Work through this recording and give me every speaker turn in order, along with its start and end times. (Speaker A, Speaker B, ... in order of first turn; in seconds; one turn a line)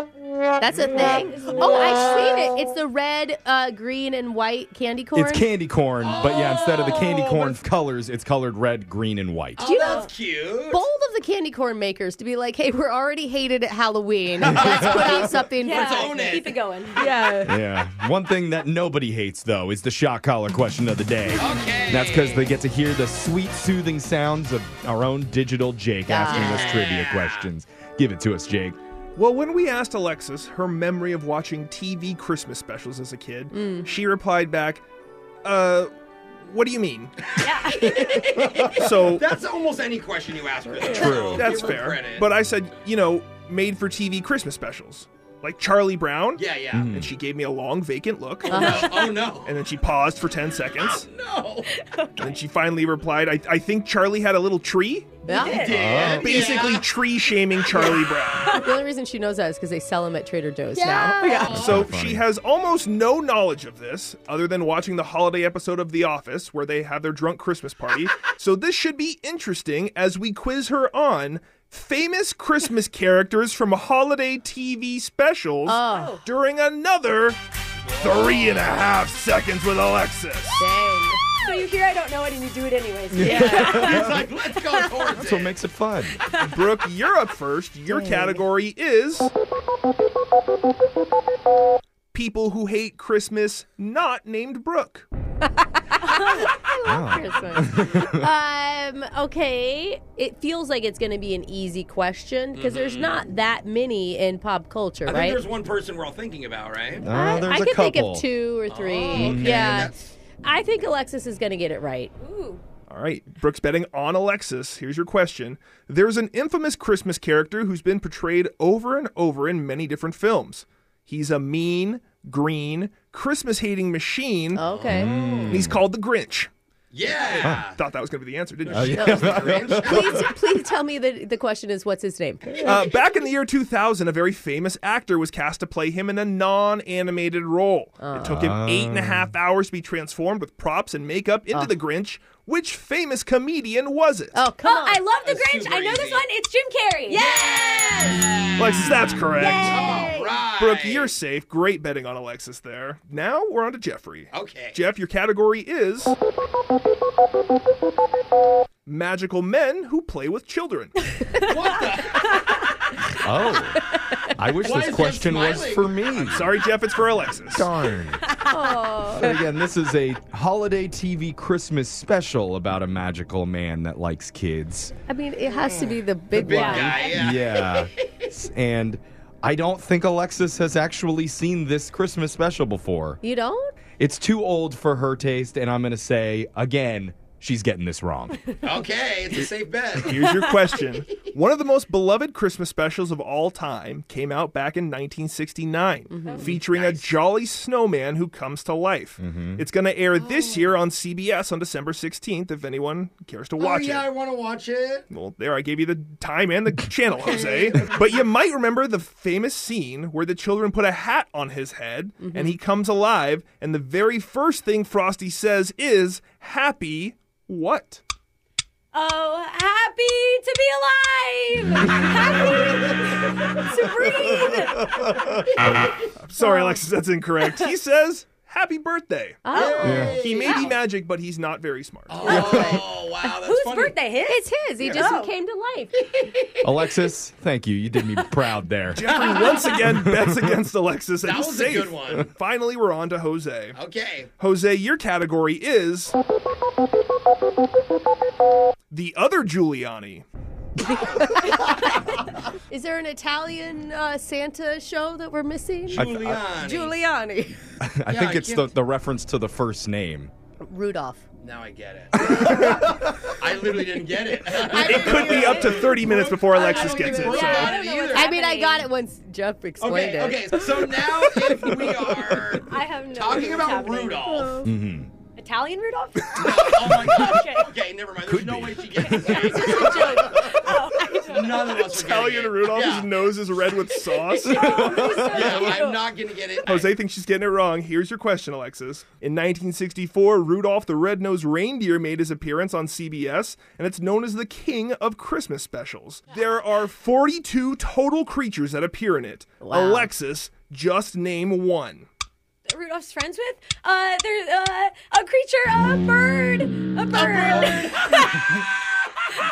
Speaker A: 0.6-5.5
Speaker B: 1.0-2.4
Speaker C: 5.1-9.6
Speaker D: 6.0-7.6
Speaker D: 9.6-10.8
Speaker A: 9.6-10.1
Speaker B: 9.8-10.1
Speaker A: 10.7-16.4
Speaker C: 14.4-15.3
Speaker D: 14.5-16.6
Speaker B: 15.6-17.1
Speaker A: 17.0-17.6
Speaker C: 17.4-28.8
Speaker D: 21.4-22.5
Speaker A: 26.1-26.8
Speaker D: 26.3-27.4
Speaker E: 29.2-34.8
Speaker A: 33.5-33.9
Speaker E: 35.4-35.9
Speaker E: 36.4-37.1
Speaker B: 37.4-38.5
Speaker D: 37.9-42.3
Speaker E: 38.7-39.3
Speaker A: 40.8-41.3
Speaker C: 40.9-41.5
Speaker E: 41.0-51.1
Speaker D: 46.4-46.9
Speaker C: 46.7-47.1
Speaker A: 48.5-49.2
Speaker D: 48.5-49.5
Speaker D: 50.8-51.7
Speaker B: 51.8-52.3
Speaker E: 52.2-55.2
Speaker A: 55.3-55.7
Speaker B: 55.3-55.7
Speaker D: 55.4-56.9
Speaker C: 55.7-56.4
Speaker E: 56.1-58.6
Speaker B: 57.8-58.7
Speaker A: 58.6-61.6
Speaker B: 60.8-61.5
Speaker D: 61.4-61.8
Speaker C: 61.5-62.2
Speaker E: 61.5-77.4
Speaker A: 75.7-76.2
Speaker B: 75.9-76.2
Speaker D: 77.9-78.7
Speaker E: 78.0-80.7
Speaker A: 80.6-81.2
Speaker B: 81.4-84.1
Speaker C: 83.1-84.3
Speaker A: 83.2-83.7
Speaker D: 83.5-85.5
Speaker C: 85.2-86.2
Speaker E: 86.4-89.3
Speaker A: 87.9-88.4
Speaker E: 92.1-95.1
Speaker A: 95.8-105.4
Speaker C: 96.8-98.3
Speaker D: 102.5-103.2
Speaker D: 105.0-107.1
Speaker C: 107.0-108.3
Speaker A: 107.1-109.9
Speaker D: 108.7-110.1
Speaker C: 109.1-109.9
Speaker A: 110.4-112.1
Speaker B: 112.2-112.6
Speaker E: 112.9-124.6
Speaker A: 124.5-125.6
Speaker D: 124.7-125.5
Speaker C: 124.9-125.8
Speaker E: 125.5-126.5
Speaker D: 126.9-127.8
Speaker E: 127.4-129.4
Speaker D: 128.7-130.3
Speaker C: 128.7-130.3
Speaker A: 129.0-132.9
Speaker E: 132.6-144.4
Speaker A: 138.0-138.5
Speaker C: 138.3-139.3
Speaker A: 144.3-145.0
Speaker B: 144.6-147.8
Speaker D: 145.2-146.2
Speaker D: 147.1-151.1
Speaker A: 147.3-148.1
Speaker E: 148.6-149.9
Speaker B: 149.3-150.2
Speaker E: 150.4-156.2
Speaker D: 154.3-154.8
Speaker E: 158.9-161.0
Speaker D: 161.4-162.5
Speaker C: 163.2-166.5
Speaker D: 164.6-166.2
Speaker E: 166.2-167.7
Speaker C: 167.5-168.3
Speaker A: 168.4-169.4
Speaker C: 169.1-174.9
Speaker A: 175.1-177.1
Speaker D: 176.3-178.3
Speaker B: 176.5-177.0
Speaker C: 177.0-183.2
Speaker A: 183.2-183.7
Speaker C: 184.0-188.4
Speaker D: 188.6-190.2
Speaker E: 189.9-204.1
Speaker A: 196.1-196.6
Speaker D: 196.7-197.1
Speaker C: 199.2-199.6
Speaker D: 203.6-205.1
Speaker E: 205.1-218.0
Speaker A: 207.4-207.8
Speaker A: 212.2-212.6
Speaker B: 218.9-225.0
Speaker C: 224.9-225.7
Speaker E: 226.2-229.4
Speaker A: 226.4-226.8
Speaker A: 229.4-230.2
Speaker D: 229.5-230.8
Speaker C: 229.8-230.2
Speaker E: 230.1-232.5
Speaker D: 232.1-233.9
Speaker A: 232.2-232.8
Speaker C: 232.3-232.8
Speaker B: 233.3-235.3
Speaker A: 234.2-236.0
Speaker C: 236.6-239.1
Speaker E: 238.9-243.8
Speaker D: 239.2-239.6
Speaker C: 239.8-240.5
Speaker D: 241.2-242.3
Speaker D: 243.8-244.3
Speaker E: 244.4-246.2
Speaker E: 248.9-250.3
Speaker A: 251.0-251.6
Speaker A: 252.7-257.6
Speaker D: 255.9-257.0
Speaker C: 255.9-256.4
Speaker C: 257.8-260.3
Speaker D: 258.1-258.7
Speaker A: 260.6-261.2
Speaker D: 261.4-268.3
Speaker C: 262.2-263.4
Speaker A: 262.2-262.9
Speaker A: 264.5-267.3
Speaker E: 264.7-267.8
Speaker B: 266.7-268.9
Speaker A: 268.1-270.6
Speaker D: 269.8-274.6
Speaker C: 271.4-272.4
Speaker B: 272.6-274.5
Speaker A: 274.3-274.7
Speaker C: 274.6-275.1
Speaker B: 275.4-277.7
Speaker D: 276.4-283.1
Speaker C: 276.4-277.2
Speaker C: 278.3-280.0
Speaker B: 279.0-281.9
Speaker E: 281.8-285.0
Speaker B: 284.5-286.0
Speaker C: 284.7-285.4
Speaker D: 285.2-286.9
Speaker E: 286.6-302.1
Speaker A: 299.6-300.1
Speaker B: 302.7-308.3
Speaker D: 307.1-308.4